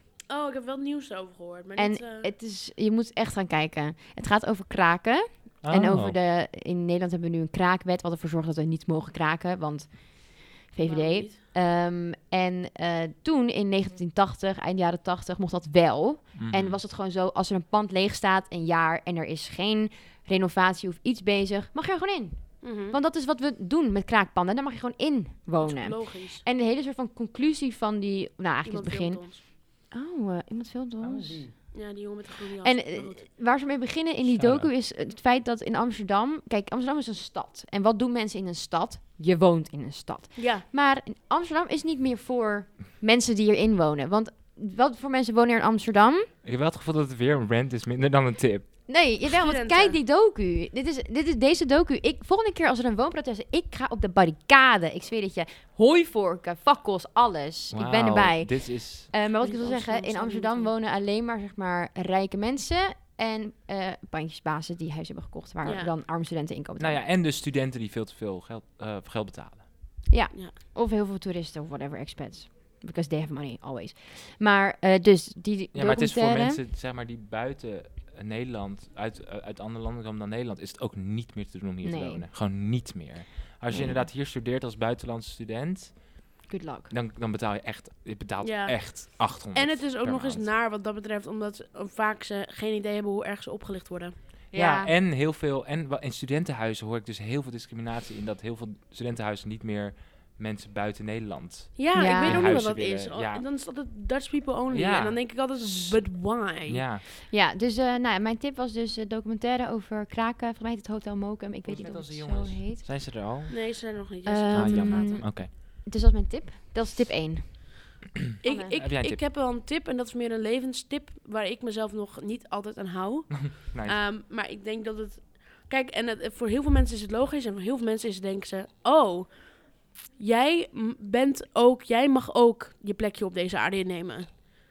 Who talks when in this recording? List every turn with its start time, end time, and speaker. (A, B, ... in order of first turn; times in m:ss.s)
0:00.3-0:02.3 A
0:01.8-0:31.8 B
0:05.6-0:06.2 C
0:10.8-0:11.4 A
0:16.4-0:16.8 C
0:22.6-0:23.0 A
0:25.6-0:26.5 A
0:28.6-0:29.4 A
0:31.0-0:31.5 C
0:31.7-0:33.3 A
0:32.6-0:46.3 B
0:34.3-0:34.7 C
0:40.4-0:40.7 A
0:46.4-0:48.7 C
0:48.9-1:07.0 B
0:49.2-0:50.0 A
0:57.7-0:59.1 C
0:59.4-1:00.7 A
1:05.6-1:05.9 A
1:06.8-1:09.6 C
1:10.1-1:16.6 B
1:15.7-1:26.3 C
1:21.8-1:22.3 B
1:23.7-1:24.1 B
1:26.5-1:26.9 B
1:26.9-1:30.5 C
1:28.4-1:34.2 A
1:34.5-1:34.9 B
1:34.5-1:43.4 C
1:41.8-1:46.9 A
1:41.9-1:42.6 B
1:44.7-1:47.0 C
1:47.3-1:53.0 B
1:51.6-1:54.0 C
1:53.5-1:55.3 A
1:54.3-1:57.9 B
1:54.5-1:55.5 C
1:58.4-2:14.4 A
1:58.4-1:58.8 B
1:58.8-1:59.2 C
2:03.3-2:04.0 C